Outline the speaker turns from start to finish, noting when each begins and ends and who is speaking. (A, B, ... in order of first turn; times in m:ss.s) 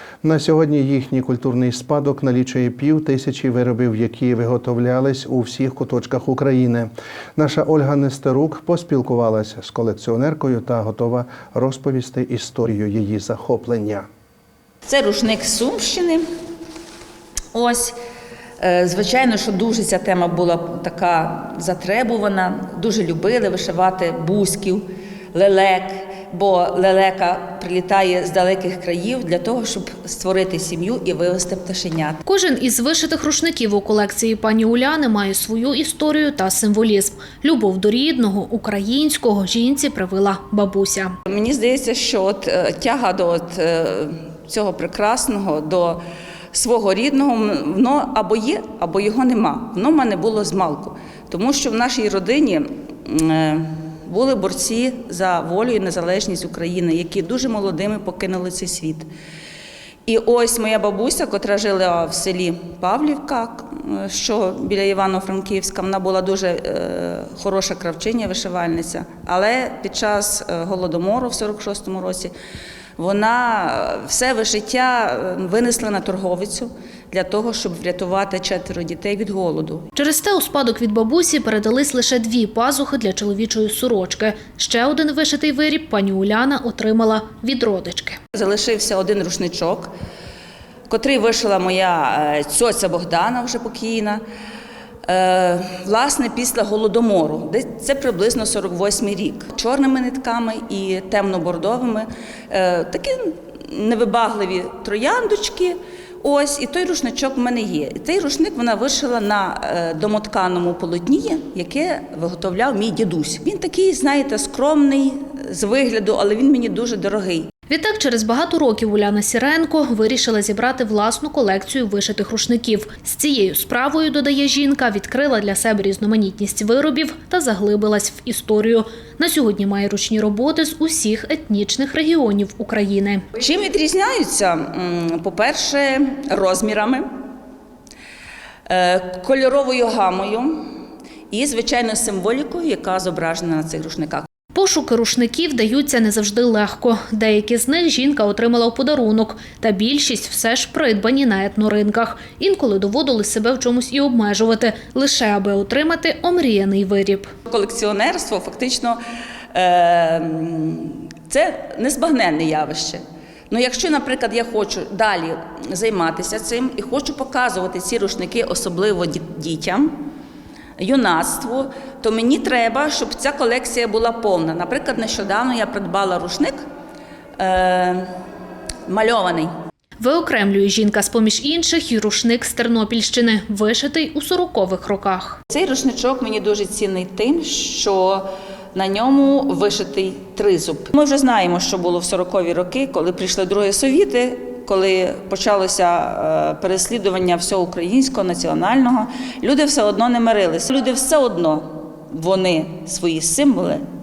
0:00.2-0:14.1 A
0:14.9-0:16.2 B
0:17.5-0:18.0 B
0:18.6-0:32.2 B
0:32.2-0:41.2 C
0:41.3-0:46.0 B
0:46.5-0:59.1 B
1:00.1-1:12.3 B
1:13.0-1:19.9 B
1:20.0-1:28.2 C
1:28.4-1:29.9 B
1:30.9-1:34.2 B
1:35.1-1:57.5 B
1:57.7-2:13.2 C
2:13.4-2:17.1 B
2:18.7-2:20.6 B
2:21.3-2:24.3 B
2:24.5-2:37.3 C
2:37.5-2:39.0 B
2:39.5-2:50.0 B
2:50.8-2:56.6 B
2:57.4-2:58.1 B
2:58.9-2:59.5 B
3:00.0-3:05.4 C
3:05.5-3:23.8 B